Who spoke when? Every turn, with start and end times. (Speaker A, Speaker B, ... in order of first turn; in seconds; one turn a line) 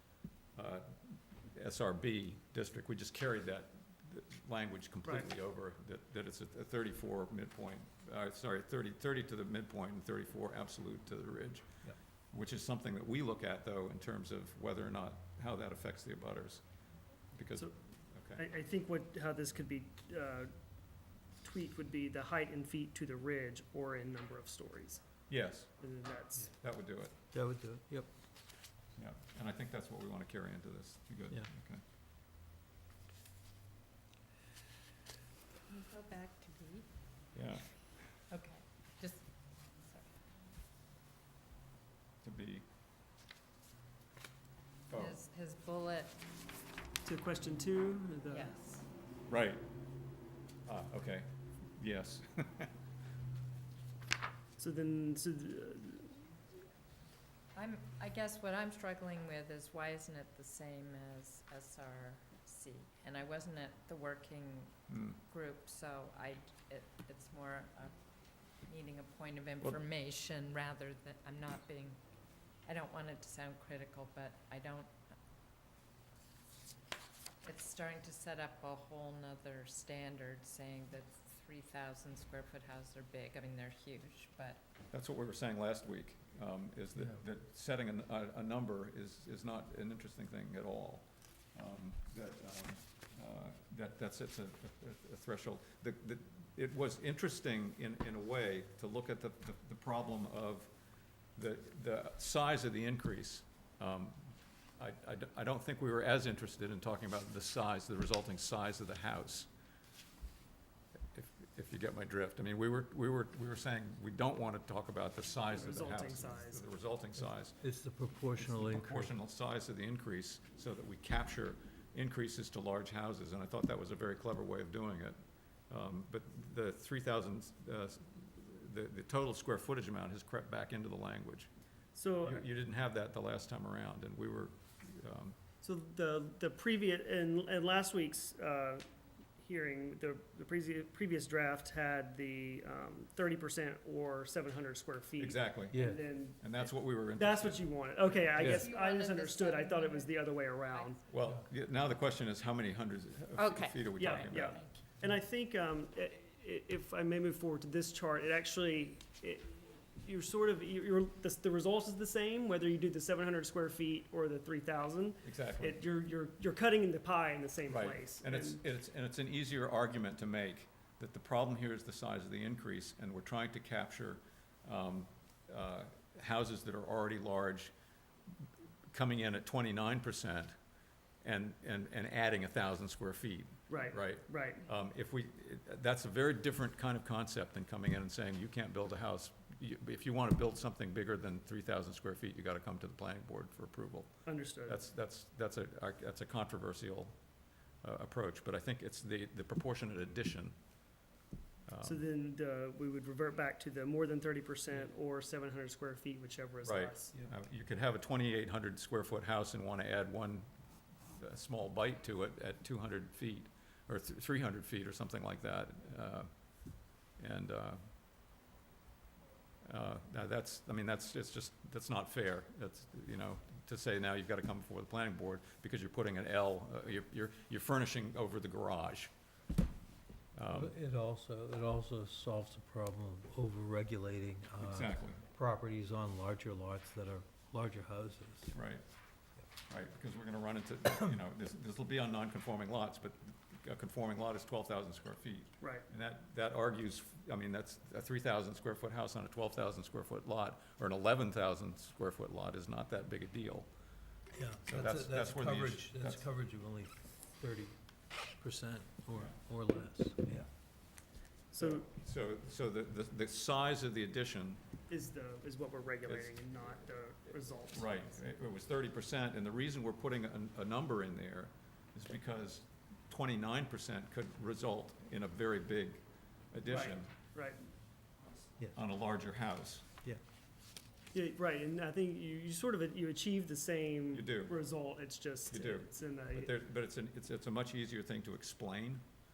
Speaker A: 0.6-11.8
Speaker B: 5.0-5.3
Speaker A: 12.3-16.6
Speaker A: 17.3-18.4
Speaker B: 18.4-20.5
Speaker B: 21.4-25.0
Speaker A: 25.3-25.7
Speaker B: 25.8-26.5
Speaker A: 26.5-27.1
Speaker C: 27.3-28.1
Speaker A: 28.9-31.8
Speaker D: 35.7-36.9
Speaker A: 37.3-37.7
Speaker D: 38.3-40.2
Speaker A: 42.2-42.6
Speaker A: 44.9-45.2
Speaker D: 44.9-46.2
Speaker B: 47.0-48.5
Speaker D: 48.3-48.9
Speaker A: 49.3-49.6
Speaker A: 50.6-52.7
Speaker B: 54.6-56.3
Speaker D: 57.5-67.9
Speaker A: 64.9-65.2
Speaker D: 68.6-72.0
Speaker D: 72.6-74.9
Speaker D: 77.4-84.6
Speaker A: 84.9-100.7
Speaker A: 101.3-109.5
Speaker A: 111.1-117.5
Speaker B: 115.5-116.6
Speaker C: 117.5-119.1
Speaker A: 118.4-125.2
Speaker A: 125.7-131.5
Speaker B: 131.9-132.4
Speaker A: 132.2-135.3
Speaker B: 135.6-138.8
Speaker B: 139.4-151.0
Speaker A: 145.2-145.8
Speaker C: 145.7-146.0
Speaker A: 146.4-147.7
Speaker D: 148.3-151.0
Speaker A: 148.3-148.7
Speaker A: 151.1-154.6
Speaker D: 153.3-154.9
Speaker B: 154.0-168.6
Speaker A: 165.2-165.8
Speaker A: 167.7-177.7
Speaker A: 178.4-180.6
Speaker A: 181.2-197.2
Speaker B: 183.7-184.7
Speaker B: 194.2-194.8
Speaker A: 197.8-200.6
Speaker A: 201.7-202.0
Speaker B: 201.8-207.2
Speaker A: 206.6-210.5
Speaker A: 211.0-216.3
Speaker A: 217.2-217.9
Speaker A: 219.6-229.1
Speaker A: 230.3-230.8
Speaker C: 230.5-238.5
Speaker A: 234.6-235.2
Speaker A: 238.5-238.8
Speaker A: 239.7-253.7
Speaker B: 245.6-245.8
Speaker C: 254.3-260.5
Speaker A: 254.6-256.2
Speaker B: 261.5-261.9
Speaker A: 261.6-264.6
Speaker B: 264.9-268.2
Speaker A: 266.0-277.1
Speaker B: 276.7-277.7
Speaker A: 278.7-279.9
Speaker B: 281.1-286.5
Speaker A: 284.1-284.6
Speaker A: 285.5-289.0